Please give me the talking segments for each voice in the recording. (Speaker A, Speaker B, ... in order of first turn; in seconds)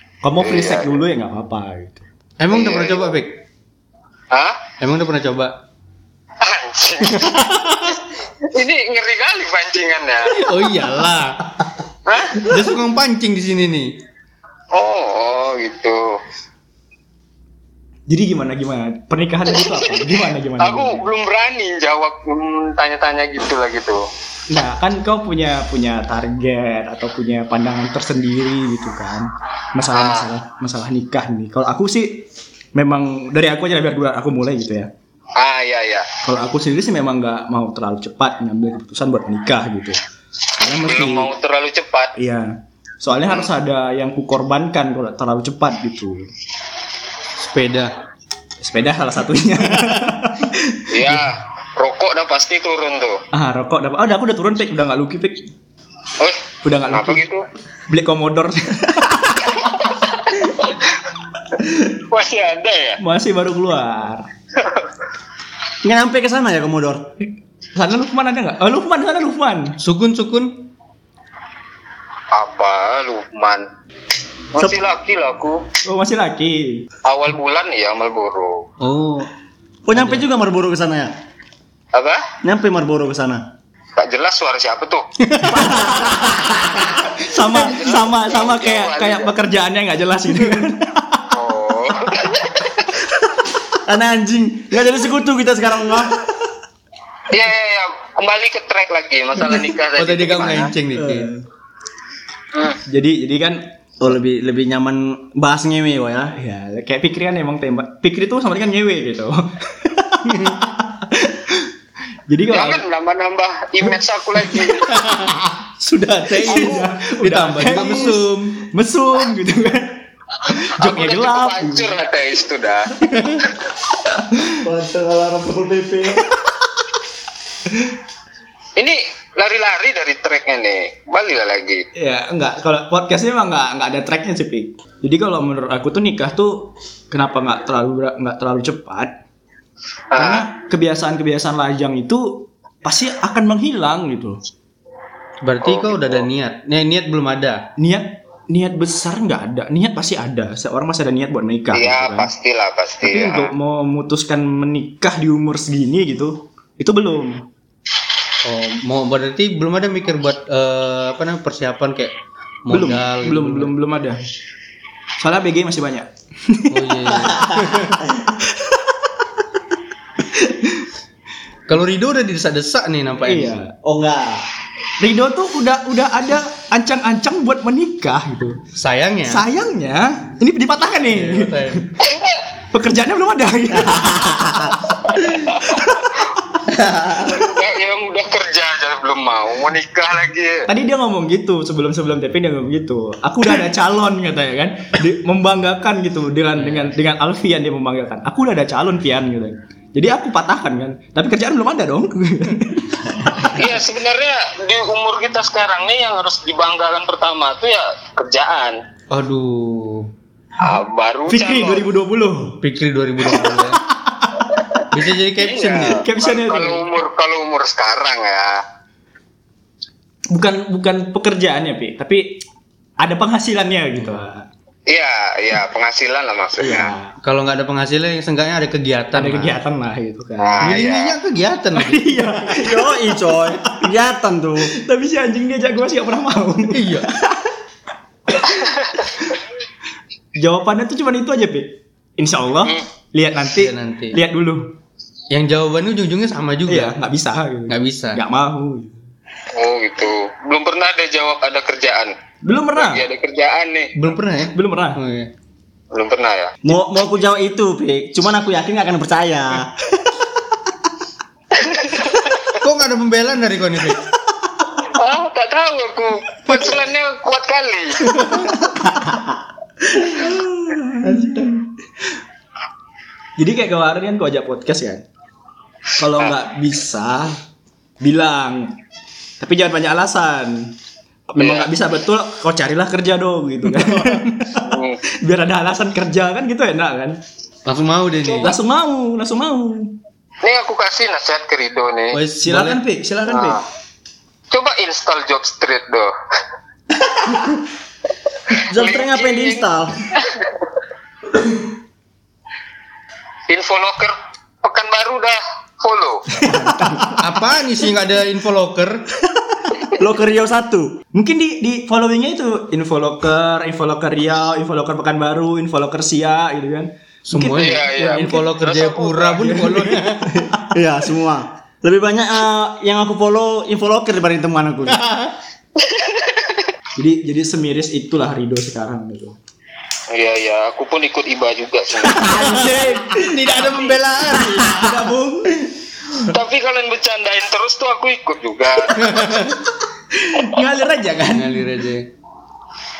Speaker A: 0.2-2.0, 18.1-21.1, 24.5-34.9, 36.2-40.0, 40.5-41.3, 42.1-46.3, 48.6-51.1, 53.3-55.5, 56.6-57.2, 57.9-59.7, 63.0-64.3, 67.7-69.8, 75.8-76.9, 85.6-86.0, 87.2-91.3, 100.9-101.4, 102.9-103.6, 106.3-111.7, 112.3-112.8, 116.3-121.9, 124.0-124.5, 131.9-139.1, 140.2-144.4, 147.8-152.3, 153.0-157.4, 162.7-164.2, 165.2-167.3, 168.6-168.9, 170.2-170.9, 173.2-173.7, 175.0-178.6, 179.3-181.9, 182.7-186.1, 190.7-203.6, 211.3-212.6, 213.3-214.6, 215.9-216.8, 220.3-222.4, 223.0-224.5, 226.6-227.1, 229.1-230.7, 231.8-233.9, 234.6-237.5, 238.3-238.7, 240.3-244.7, 246.7-249.0, 252.4-253.0, 254.5-255.0, 268.2-268.9, 269.9-271.8, 273.4-275.0, 276.0-277.4, 278.0-278.8, 279.4-280.7, 281.3-287.2, 288.4-289.9, 292.4-293.6, 306.3-307.3, 311.1-318.5, 319.3-320.8, 326.9-329.4, 332.2-333.2, 334.3-335.7, 340.1-341.7
Speaker B: 0.4-1.0, 2.5-3.2, 4.3-4.6, 6.4-7.4, 8.5-10.4, 12.1-12.5, 14.7-16.2, 19.5-24.0, 29.9-30.3, 35.4-36.1, 40.6-42.1, 50.9-53.2, 56.2-57.4, 59.6-61.0, 61.9-63.0, 64.6-64.8, 72.3-73.7, 74.5-75.6, 77.0-78.6, 81.9-82.2, 84.0-85.0, 87.5-89.3, 91.3-93.0, 97.3-100.7, 102.5-102.8, 112.5-114.9, 120.8-123.5, 128.8-131.8, 140.1-140.4, 145.6-146.2, 151.7-153.5, 182.0-182.4, 185.1-186.2, 187.2-190.7, 203.4-208.8, 210.6-211.8, 215.4-218.6, 224.9-226.9, 230.4-231.2, 249.5-252.1, 252.7-253.9, 255.9-256.5, 261.6-262.5, 264.8-268.2, 281.4-281.7, 284.6-285.0, 288.2-288.5, 290.4-292.2, 293.3-293.6, 294.5-296.1, 298.7-300.7, 303.5-306.5, 317.5-319.6, 325.8-326.7, 330.1-332.4, 336.2-339.2
Speaker C: 2.4-3.3, 4.8-5.5, 7.0-8.0, 10.3-11.4, 12.4-13.9, 47.4-47.9, 69.8-70.6, 78.8-79.3, 79.9-80.2, 85.2-85.9, 100.0-101.3, 110.3-110.6, 114.8-118.6, 123.1-123.4, 145.4-147.7, 158.4-162.1, 162.6-163.7, 166.7-168.0, 171.7-173.6, 178.7-179.4, 181.0-181.9, 196.6-196.9, 209.1-210.1, 212.6-213.8, 214.9-216.0, 224.0-224.2, 227.2-229.6, 230.6-232.3, 236.7-237.1, 243.6-244.2, 245.3-247.0, 247.7-248.2, 253.9-255.3, 262.6-264.0, 266.5-266.7, 283.8-284.2, 287.6-288.5, 292.1-292.8, 307.2-309.0, 317.3-320.3, 324.9-325.3, 332.2-334.9, 338.9-339.6, 341.3-342.1
Speaker D: 65.8-67.0, 79.8-81.1, 82.4-83.4, 85.5-87.0, 93.8-96.2, 104.0-106.3, 124.6-126.3, 173.8-174.4, 183.8-184.7, 186.7-187.5, 232.5-234.7, 256.6-259.7, 297.1-297.6, 298.6-300.0, 309.9-311.0, 320.7-325.0, 332.3-333.1